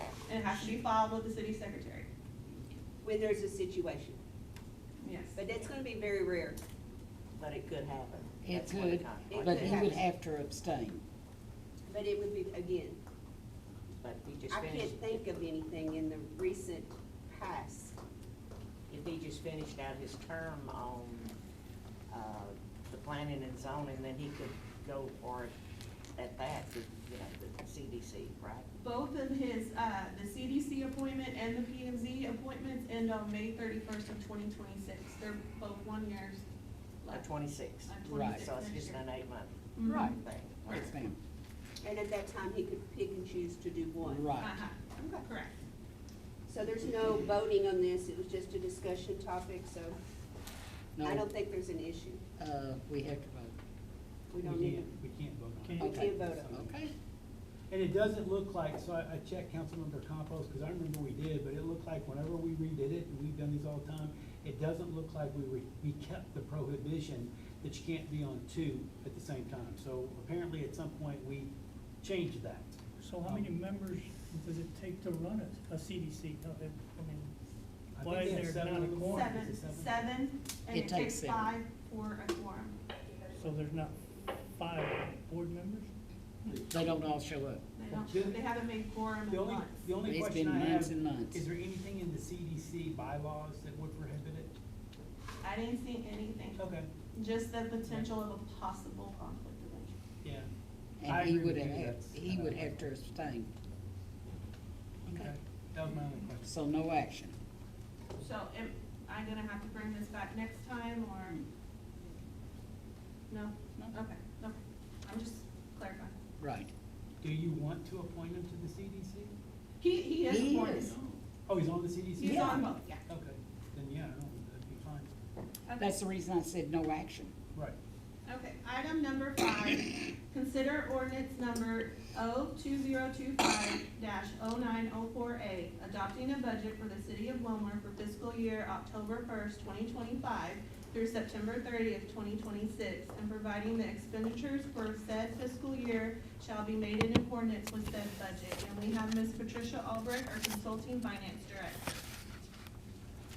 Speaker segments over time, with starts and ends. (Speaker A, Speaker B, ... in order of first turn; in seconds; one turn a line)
Speaker A: 0.3-2.1
Speaker B: 3.0-4.2
Speaker A: 5.0-5.4
Speaker B: 5.3-6.6
Speaker C: 7.4-10.0
Speaker D: 8.4-11.0
Speaker B: 9.3-10.1
Speaker B: 11.9-13.0
Speaker C: 14.0-15.3
Speaker B: 14.5-18.0
Speaker C: 18.9-21.4
Speaker C: 22.1-25.5
Speaker C: 26.1-28.7
Speaker A: 28.8-36.4
Speaker A: 37.0-37.3
Speaker C: 37.1-40.9
Speaker A: 37.9-39.0
Speaker D: 38.0-38.5
Speaker A: 39.8-40.1
Speaker D: 39.8-41.2
Speaker B: 41.8-44.2
Speaker D: 44.0-44.5
Speaker A: 44.4-45.6
Speaker B: 45.0-45.2
Speaker B: 46.5-50.0
Speaker D: 51.0-51.3
Speaker B: 51.0-52.2
Speaker D: 52.4-53.5
Speaker B: 54.3-54.9
Speaker E: 54.4-56.9
Speaker F: 55.6-56.1
Speaker B: 55.8-56.5
Speaker D: 55.8-56.9
Speaker E: 57.7-73.5
Speaker F: 73.0-77.3
Speaker E: 77.9-80.0
Speaker F: 78.0-79.3
Speaker A: 79.1-82.8
Speaker D: 80.7-81.5
Speaker F: 83.3-85.9
Speaker E: 86.4-86.8
Speaker D: 86.7-87.6
Speaker A: 87.7-89.9
Speaker E: 87.9-88.5
Speaker E: 89.3-94.5
Speaker D: 90.0-91.4
Speaker A: 95.4-96.6
Speaker E: 96.6-96.9
Speaker A: 97.1-100.0
Speaker E: 97.9-98.1
Speaker E: 100.2-100.5
Speaker D: 101.0-103.5
Speaker E: 101.0-102.8
Speaker E: 105.1-106.5
Speaker D: 106.4-107.3
Speaker A: 108.2-111.4
Speaker A: 113.3-116.2
Speaker D: 116.4-116.7
Speaker E: 117.2-119.3
Speaker A: 119.8-121.0
Speaker D: 120.3-121.0
Speaker E: 121.5-125.1
Speaker A: 122.2-123.0
Speaker D: 122.2-122.6
Speaker A: 125.7-126.0
Speaker D: 125.8-127.3
Speaker A: 128.3-151.9